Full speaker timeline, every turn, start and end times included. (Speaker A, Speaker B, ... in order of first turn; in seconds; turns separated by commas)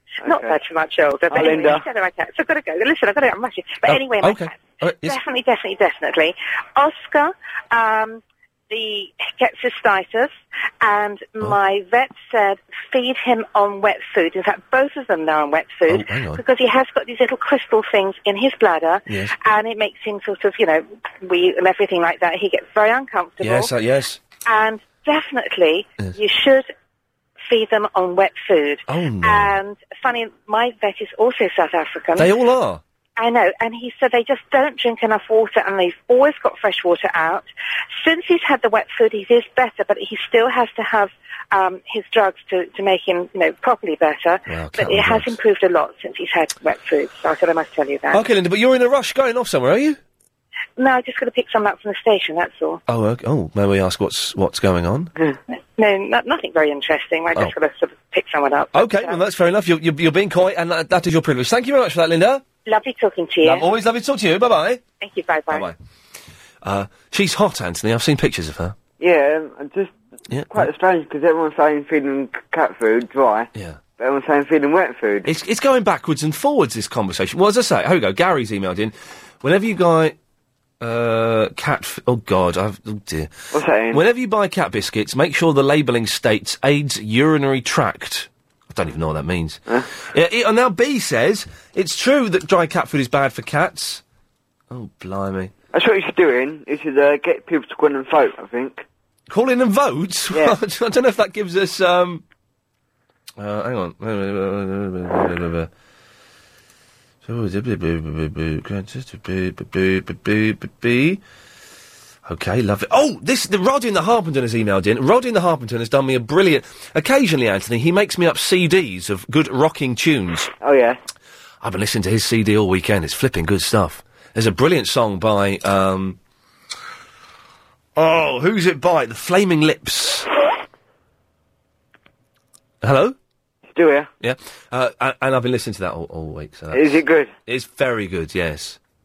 Speaker A: 0.2-0.6, Speaker B: 0.2-23.7, Speaker A: 1.3-1.9, Speaker C: 3.9-5.2, Speaker C: 15.9-16.4, Speaker C: 19.1-19.3, Speaker C: 23.4-24.2, Speaker B: 24.5-26.7, Speaker B: 27.5-32.3, Speaker C: 28.9-29.6, Speaker C: 32.2-32.8, Speaker B: 33.2-37.5, Speaker B: 38.0-48.2, Speaker C: 44.5-45.4, Speaker C: 48.1-50.0, Speaker B: 50.8-52.8, Speaker C: 52.9-55.1, Speaker B: 55.5-59.2, Speaker C: 58.7-62.4, Speaker B: 62.7-63.7, Speaker C: 63.4-64.8, Speaker B: 65.0-65.7, Speaker C: 65.5-65.8, Speaker C: 66.6-68.8, Speaker A: 69.0-69.9, Speaker C: 70.3-70.7, Speaker A: 70.5-75.3, Speaker C: 73.5-73.8, Speaker C: 75.3-80.2, Speaker C: 80.8-83.3, Speaker A: 83.5-84.0, Speaker C: 83.9-94.0, Speaker C: 94.7-95.5, Speaker A: 95.7-98.8, Speaker C: 99.3-102.2, Speaker A: 100.3-100.6, Speaker C: 103.4-105.7, Speaker C: 107.2-111.2, Speaker C: 112.3-120.5, Speaker A: 120.6-121.0, Speaker C: 121.6-126.2, Speaker C: 128.0-130.3, Speaker C: 132.8-133.2, Speaker A: 133.7-134.1, Speaker C: 134.2-136.8, Speaker A: 136.7-137.3, Speaker C: 137.5-138.8